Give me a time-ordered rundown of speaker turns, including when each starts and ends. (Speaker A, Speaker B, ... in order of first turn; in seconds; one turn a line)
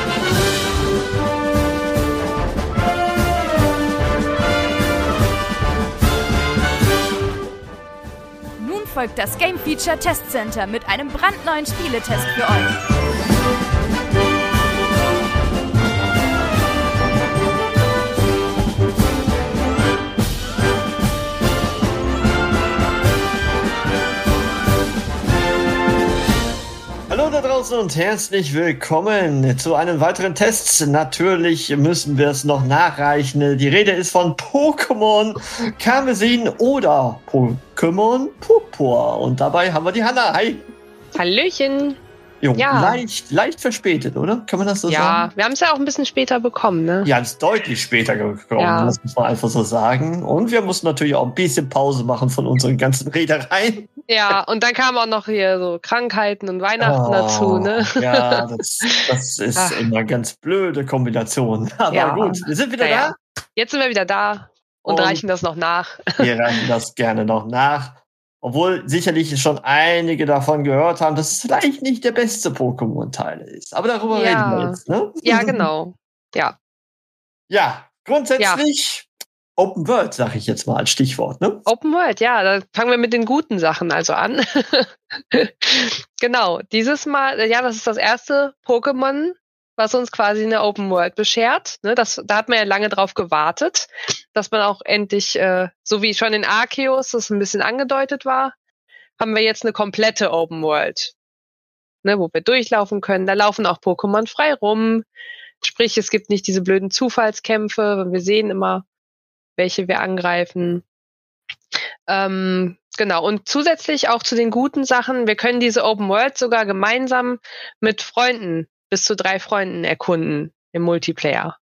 Speaker A: 8.6-12.8
Speaker B: 27.1-40.7
Speaker C: 41.1-42.0
Speaker B: 42.4-45.2
Speaker C: 42.5-43.0
Speaker C: 44.9-47.1
Speaker B: 47.0-54.4
Speaker C: 48.6-49.0
Speaker C: 54.1-59.0
Speaker B: 56.8-63.1
Speaker C: 59.5-59.9
Speaker C: 61.9-66.2
Speaker B: 64.8-65.2
Speaker B: 66.2-75.7
Speaker C: 74.1-76.6
Speaker B: 77.5-81.6
Speaker C: 78.4-78.6
Speaker C: 81.7-98.5
Speaker C: 99.2-101.2
Speaker C: 102.0-105.0
Speaker C: 105.6-108.8
Speaker C: 109.5-110.8
Speaker C: 112.1-121.5